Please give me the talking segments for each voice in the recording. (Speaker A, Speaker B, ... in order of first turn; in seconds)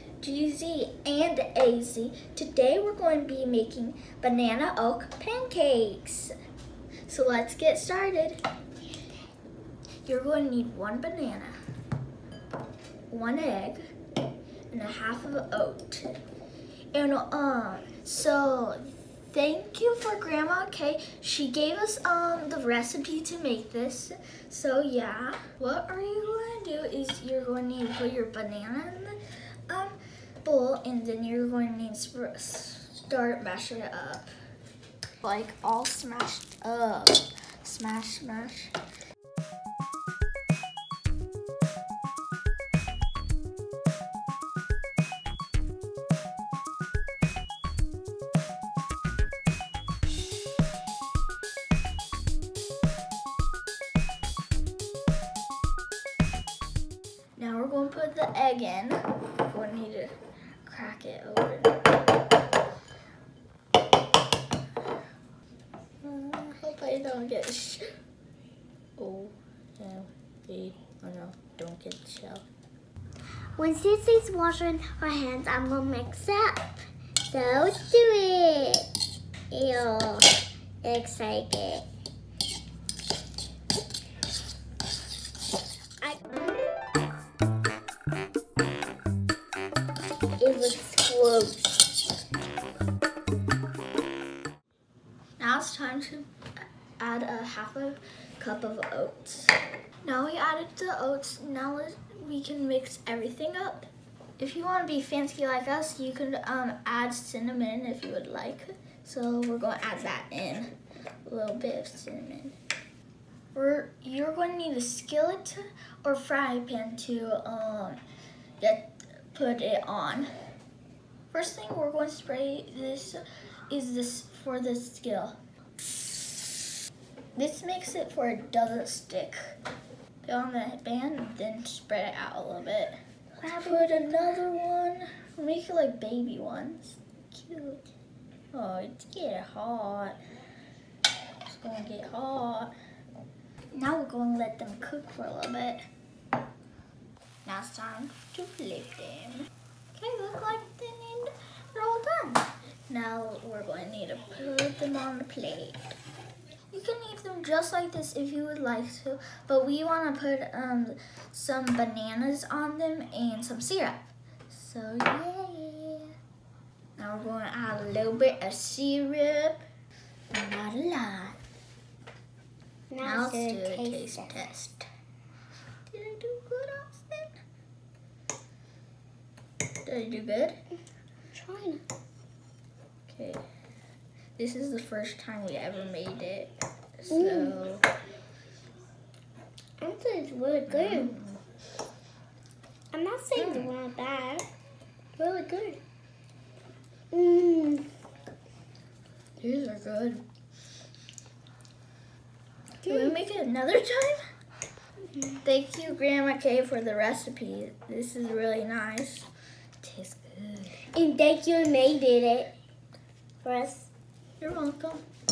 Speaker A: 0.2-6.3, 7.1-8.4, 10.1-11.6, 13.1-13.8, 14.7-16.1, 16.9-29.2, 29.7-34.3, 35.2-38.7, 57.4-61.8, 66.0-67.9, 69.0-72.4, 95.4-96.3, 97.0-110.7, 111.2-112.6, 113.5-118.0, 118.6-120.3, 121.3-125.4, 127.3-129.5, 130.2-137.8, 138.5-140.2, 141.4-142.7, 143.7-145.8, 147.4-155.9, 156.7-166.1, 167.0-169.6, 170.3-171.4, 173.0-174.9, 175.9-177.3, 179.8-180.6, 183.1-183.4, 184.4-187.9, 190.7-191.4, 193.3-193.7, 199.4-200.2, 202.8-204.2, 205.4-209.3, 209.8-210.9, 214.4-215.0
Speaker B: 73.6-78.9, 79.5-80.3, 80.8-81.8, 90.4-91.8, 133.4-134.1, 172.9-174.4, 181.3-181.8, 187.1-187.6, 189.8-191.1, 192.9-194.5, 195.2-195.8, 197.1-197.8, 202.8-203.1, 210.9-212.5, 213.4-213.9